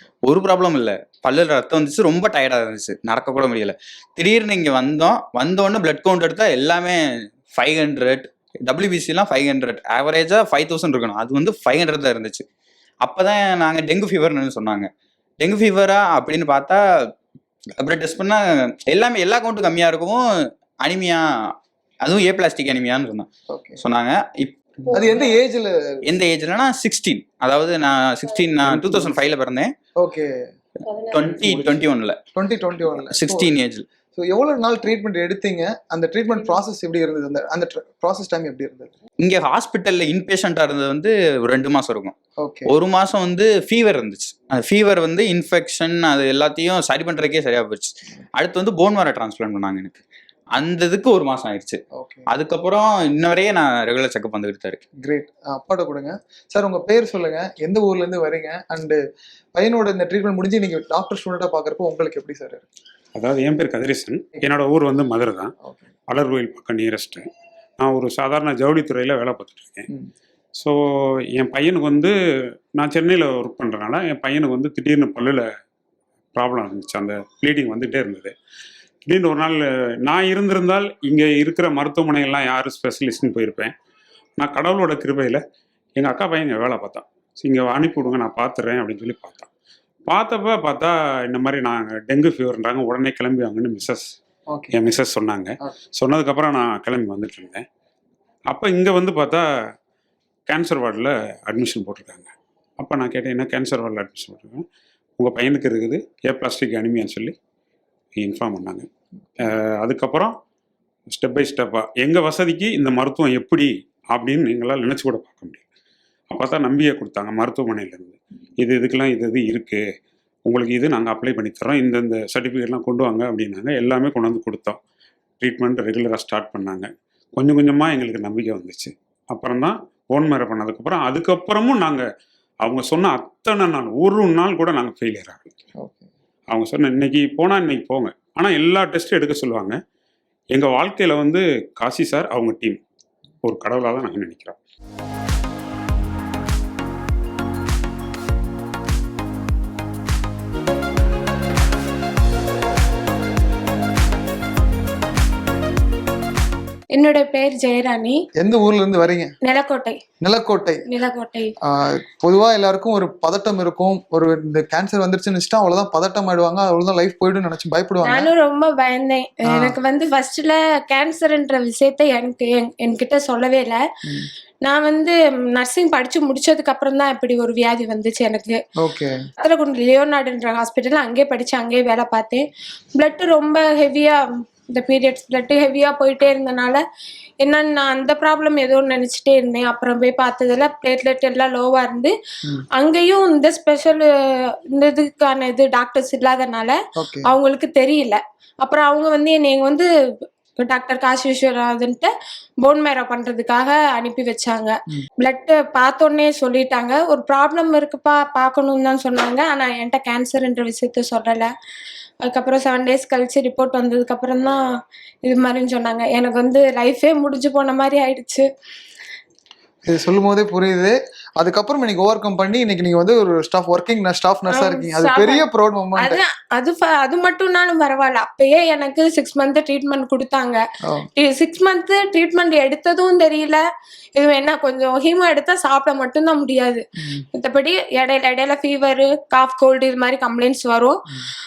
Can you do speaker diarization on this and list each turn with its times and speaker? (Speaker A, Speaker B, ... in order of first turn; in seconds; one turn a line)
Speaker A: 0.2-12.4
Speaker A: 13.0-14.9
Speaker A: 15.4-16.8
Speaker A: 17.8-20.2
Speaker A: 20.8-21.5
Speaker A: 22.0-24.6
Speaker B: 23.5-23.8
Speaker B: 24.9-25.7
Speaker A: 26.1-29.7
Speaker B: 28.6-29.1
Speaker B: 30.0-30.4
Speaker A: 31.1-32.2
Speaker B: 32.4-33.5
Speaker A: 33.1-33.9
Speaker B: 34.1-38.9
Speaker A: 39.2-42.1
Speaker B: 42.4-42.7
Speaker A: 42.7-50.0
Speaker A: 50.5-54.8
Speaker B: 52.0-52.2
Speaker B: 55.0-59.0
Speaker B: 59.5-62.6
Speaker C: 63.1-65.5
Speaker C: 66.1-67.3
Speaker C: 67.8-69.9
Speaker C: 71.3-72.1
Speaker C: 72.8-75.5
Speaker C: 76.3-78.3
Speaker C: 79.1-83.7
Speaker C: 84.4-85.4
Speaker C: 86.0-89.5
Speaker C: 90.1-94.1
Speaker B: 94.5-94.8
Speaker C: 94.7-97.7
Speaker C: 98.5-99.5
Speaker C: 100.5-104.7
Speaker C: 105.2-107.3
Speaker C: 108.2-108.9
Speaker C: 109.4-110.3
Speaker C: 111.1-115.6
Speaker C: 116.3-119.8
Speaker C: 120.5-124.8
Speaker C: 125.4-132.1
Speaker C: 132.6-135.4
Speaker B: 135.8-136.1
Speaker C: 136.5-139.8
Speaker C: 140.5-142.8
Speaker C: 143.4-144.6
Speaker D: 156.9-158.2
Speaker B: 158.4-159.3
Speaker D: 159.4-160.0
Speaker B: 160.2-160.8
Speaker D: 160.9-161.5
Speaker B: 161.6-168.3
Speaker D: 168.0-173.8
Speaker B: 169.5-169.8
Speaker D: 174.6-178.6
Speaker B: 178.8-179.2
Speaker D: 179.4-186.8
Speaker D: 187.4-192.1
Speaker D: 192.7-194.1
Speaker D: 194.7-199.9
Speaker B: 197.0-197.3
Speaker D: 200.6-202.1
Speaker D: 202.6-211.5
Speaker D: 212.2-214.6
Speaker D: 215.2-218.4
Speaker B: 219.9-226.2
Speaker D: 224.5-225.4
Speaker D: 226.0-230.6
Speaker D: 231.2-233.6
Speaker D: 234.2-236.8
Speaker B: 237.0-237.3
Speaker D: 237.3-241.1